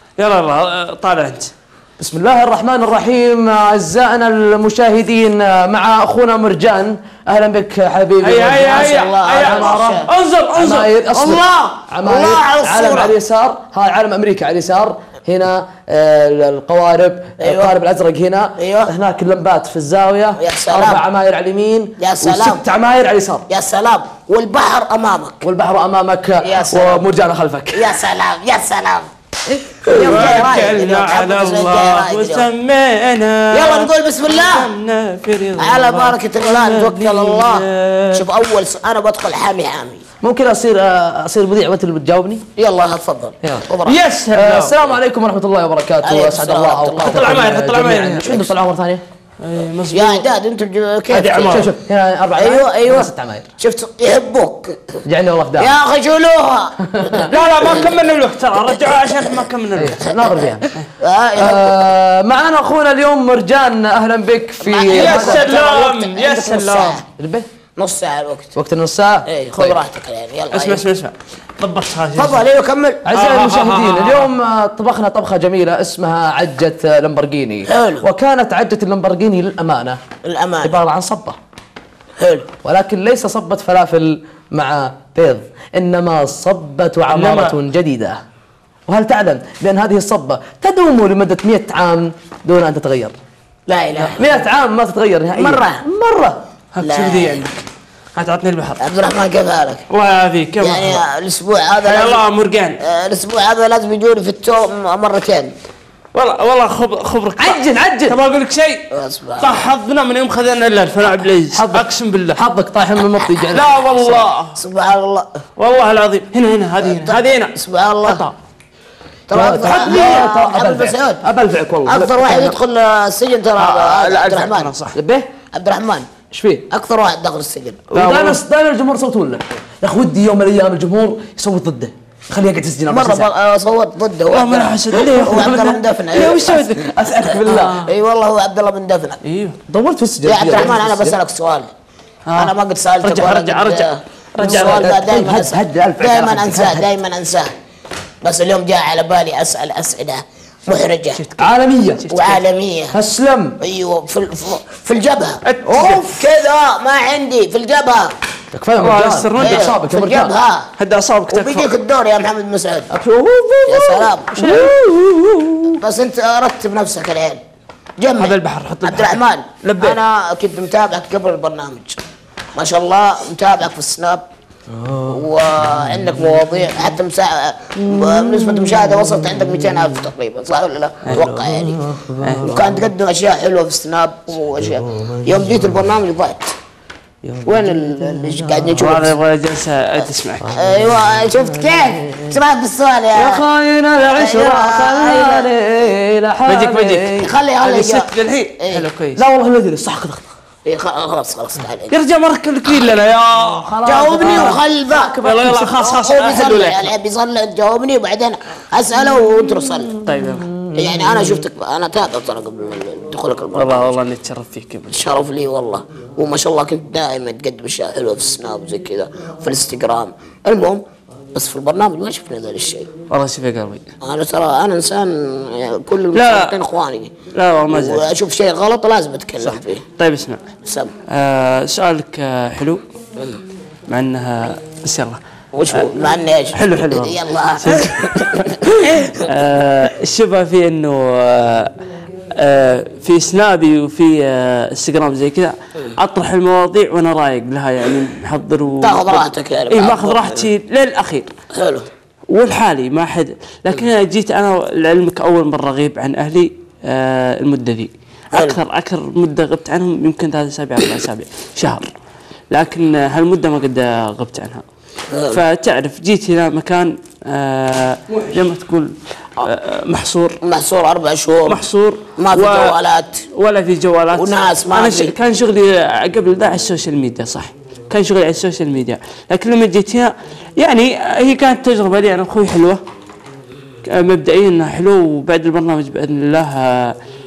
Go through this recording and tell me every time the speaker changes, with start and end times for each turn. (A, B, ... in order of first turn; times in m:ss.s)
0:00.2-0:01.5 A
0:02.0-0:23.4 B
0:08.2-0:10.9 A
0:08.5-0:10.1 C
0:11.1-0:13.1 C
0:17.4-0:17.7 C
0:18.6-0:18.9 C
0:20.4-0:21.0 C
0:22.0-0:22.6 C
0:23.5-0:25.4 C
0:25.4-0:27.9 B
0:26.4-0:27.1 C
0:27.7-0:29.1 C
0:29.7-0:32.5 C
0:29.9-0:30.3 B
0:29.9-0:38.2 A
0:33.5-0:34.7 C
0:35.6-0:40.0 C
0:40.2-0:42.4 B
0:42.6-0:44.0 C
0:43.4-0:43.7 B
0:43.8-0:44.7 A
0:44.3-0:49.0 B
0:46.0-0:47.4 C
0:47.0-0:48.5 A
0:49.4-0:50.3 A
0:49.9-0:51.7 C
0:51.1-0:51.6 A
0:51.3-0:53.5 B
0:52.4-0:55.0 C
0:55.0-0:55.7 B
0:55.6-0:57.9 C
0:56.8-0:57.3 B
0:57.3-1:00.1 A
0:59.8-1:00.7 B
1:00.2-1:01.8 C
1:01.4-1:05.5 B
1:04.6-1:07.0 C
1:04.9-1:07.0 A
1:07.2-1:07.4 B
1:07.8-1:08.5 C
1:08.5-1:09.8 B
1:09.3-1:10.8 C
1:10.5-1:12.4 A
1:12.2-1:13.0 C
1:13.0-1:20.0 B
1:13.1-1:14.3 A
1:17.7-1:18.0 C
1:20.2-1:20.7 C
1:20.6-1:21.4 B
1:22.2-1:22.4 C
1:22.6-1:28.2 B
1:27.1-1:27.6 A
1:28.9-1:33.1 B
1:33.7-1:34.4 C
1:34.0-1:36.4 B
1:35.4-1:35.8 C
1:36.7-1:37.5 A
1:36.8-1:37.4 C
1:38.1-1:38.8 A
1:38.8-1:39.8 C
1:39.9-1:41.0 A
1:40.6-1:42.2 C
1:41.8-1:42.8 A
1:42.8-1:45.5 C
1:46.1-1:48.8 A
1:47.4-1:48.2 B
1:48.9-1:49.7 C
1:49.4-1:52.4 A
1:51.5-1:54.3 B
1:53.5-1:54.6 A
1:54.6-1:55.4 C
1:55.6-1:57.5 A
1:56.8-1:58.2 C
1:59.3-2:01.2 C
1:59.3-2:02.6 B
1:59.7-2:00.3 A
2:01.8-2:04.8 C
2:03.6-2:04.9 A
2:04.9-2:05.3 B
2:05.5-2:06.1 C
2:06.3-2:06.6 B
2:06.7-2:07.8 C
2:07.9-2:08.4 A
2:07.9-2:13.3 B
2:12.9-2:19.2 C
2:14.3-2:17.8 A
2:16.4-2:17.8 B
2:19.2-2:19.6 A
2:19.7-2:21.2 B
2:20.2-2:21.7 C
2:22.3-2:24.9 A
2:22.3-2:27.5 C
2:24.4-2:26.9 B
2:28.2-2:31.2 C
2:31.1-2:32.4 A
2:31.4-2:32.0 B
2:32.1-2:33.0 C
2:32.9-2:33.6 B
2:33.6-2:38.1 C
2:35.4-2:36.0 A
2:35.7-2:36.0 B
2:38.5-2:40.3 B
2:38.8-2:39.7 A
2:39.4-2:40.7 C
2:40.8-2:41.7 A
2:41.3-2:42.9 C
2:42.9-2:45.7 B
2:43.7-2:44.4 C
2:44.4-2:44.8 A
2:45.8-2:47.4 C
2:48.0-2:52.0 C
2:48.2-2:50.0 A
2:52.6-2:54.3 C
2:54.7-2:55.3 B
2:55.1-3:01.8 C
2:57.8-3:00.0 B
3:01.1-3:02.8 B
3:02.4-3:06.5 C
3:04.6-3:05.9 B
3:07.2-3:09.1 B
3:07.4-3:09.2 C
3:08.8-3:10.5 A
3:10.4-3:12.4 B
3:10.5-3:13.4 C
3:13.1-3:17.3 B
3:14.1-3:15.5 C
3:16.4-3:19.2 A
3:17.2-3:18.1 C
3:18.6-3:18.8 C
3:19.1-3:20.2 B
3:20.6-3:21.9 C
3:21.9-3:24.6 A
3:23.6-3:25.7 B
3:23.8-3:30.0 C
3:25.2-3:26.9 A
3:30.0-3:30.5 A
3:30.2-3:31.4 B
3:30.7-3:34.0 C
3:33.5-3:35.1 A
3:34.9-3:40.8 C
3:41.3-3:42.9 C
3:43.1-3:43.8 A
3:44.0-3:47.2 C
3:46.1-3:46.5 A
3:47.3-3:48.1 A
3:47.7-3:49.8 C
3:49.4-3:50.5 A
3:50.6-3:50.9 C
3:51.1-3:52.8 A
3:53.9-3:55.2 A
3:55.5-3:59.2 C
3:56.5-4:01.7 A
4:02.4-4:11.3 A
4:08.8-4:10.5 C
4:11.5-4:11.9 C
4:12.3-4:21.9 A
4:18.3-4:18.6 C
4:22.5-4:24.6 A
4:25.1-4:25.4 C
4:25.3-4:30.4 A
4:30.4-4:31.6 C
4:31.4-4:32.8 A
4:32.2-4:33.2 C
4:33.3-4:42.8 A
4:34.2-4:35.1 C
4:43.8-4:47.0 A